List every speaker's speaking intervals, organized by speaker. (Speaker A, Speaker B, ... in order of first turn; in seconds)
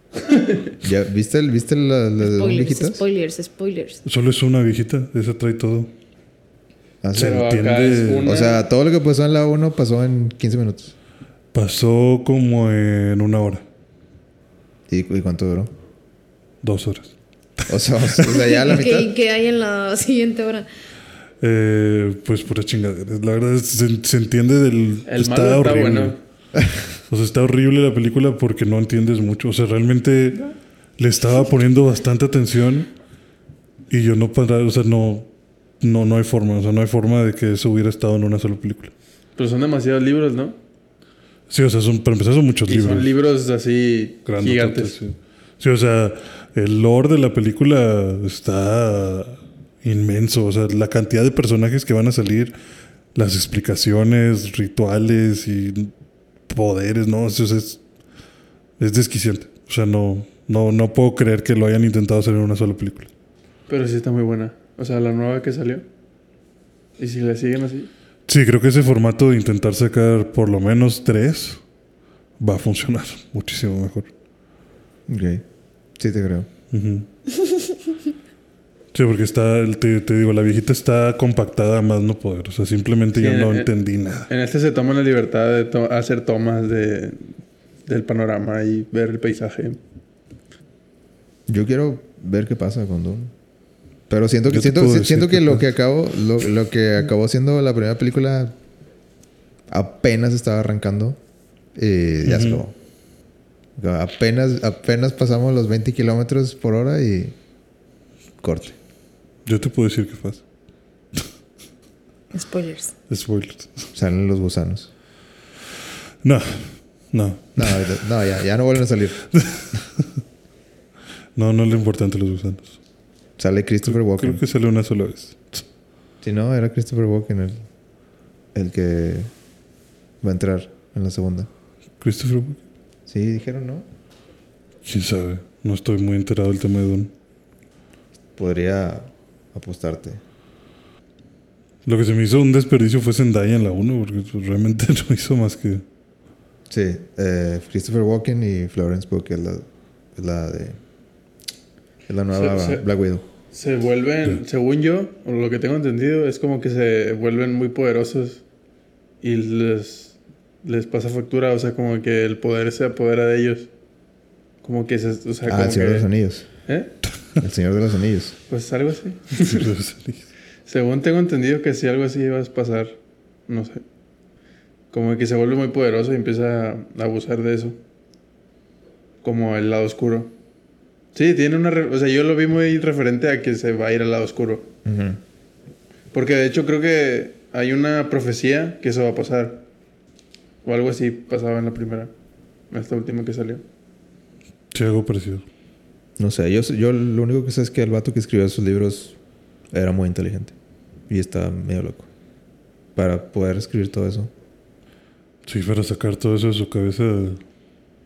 Speaker A: 0.2-0.7, 7.2-8.6, 25.1-26.2, 39.4-40.6, 42.7-45.0, 63.7-65.9, 67.0-67.9, 83.1-83.7, 84.3-87.3, 87.9-89.8, 152.3-152.9, 153.5-158.4, 159.2-163.7, 164.6-166.1, 166.7-166.9, 168.5-169.7, 170.7-173.8, 174.9-177.8, 179.2-180.3, 181.1-184.7, 186.1-189.7, 190.6-192.1, 192.7-193.6
Speaker B: 0.8-3.0, 7.0-7.5, 8.2-10.9, 14.9-15.7, 17.7-19.1, 26.6-26.8, 75.1-75.4, 76.0-76.5, 91.5-93.3, 94.1-98.5, 99.7-101.2, 101.8-102.7, 103.8-107.3, 108.4-108.8, 113.9-114.9, 117.6-119.3, 123.4-124.4, 126.2-127.6, 128.6-129.3, 130.2-131.5, 133.1-133.9, 138.4-140.2, 146.7-150.8, 152.1-153.2, 165.5-166.5, 167.4-168.3, 184.8-185.2, 196.2-199.2, 199.7-200.5, 201.1-202.1, 202.9-204.3
Speaker C: 2.2-4.0, 18.6-20.7, 112.3-112.9
Speaker D: 4.0-5.9, 7.1-8.3, 11.5-13.6, 16.6-18.5, 21.4-26.2, 27.1-32.9, 33.9-35.3, 35.8-38.9, 41.5-43.1, 44.2-52.5, 53.1-55.9, 56.5-57.8, 58.8-63.1, 68.3-71.6, 72.4-74.1, 76.7-77.1, 78.9-84.3, 94.5-95.7, 102.3-102.6, 109.5-110.4, 113.1-113.9, 116.2-117.9, 119.3-120.0, 121.4-122.8, 123.9-125.7, 132.0-132.6, 134.9-137.1, 141.9-145.8, 169.4-170.3, 194.7-195.4, 205.5-207.4